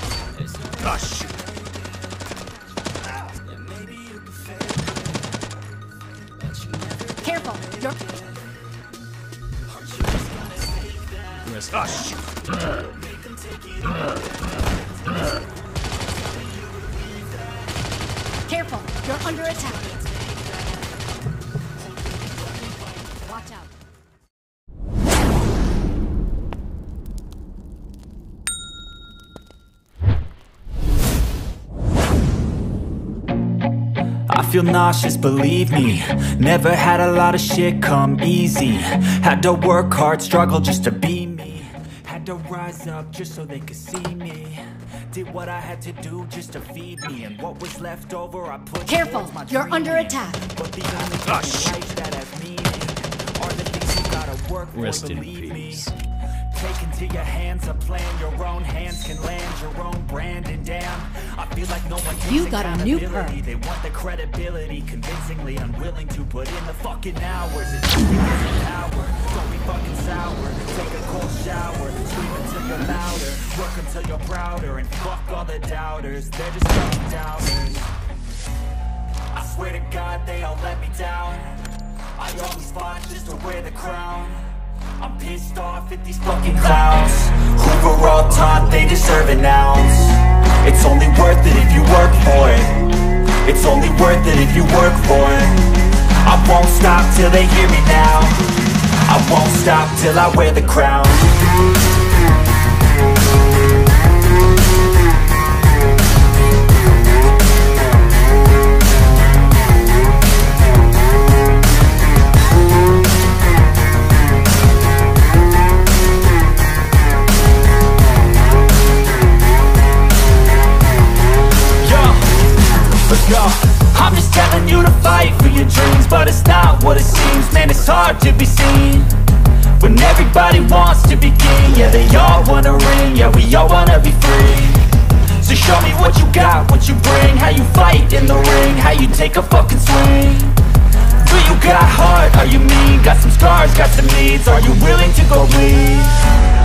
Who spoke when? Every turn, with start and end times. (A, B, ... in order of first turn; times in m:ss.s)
0:00.8-0:01.3 A
0:03.8-0:04.4 A
0:07.2-0:08.0 B
0:11.5-0:12.2 C
0:13.2-0:14.1 A
0:18.5-0:19.9 B
0:19.7-0:20.2 A
0:23.2-0:23.7 B
0:34.3-0:55.9 A
0:48.9-0:50.4 B
0:51.3-0:51.7 C
0:54.7-0:55.9 C
0:56.5-1:17.9 A
1:02.2-1:03.4 B
1:19.3-1:41.5 A
2:01.8-2:26.4 A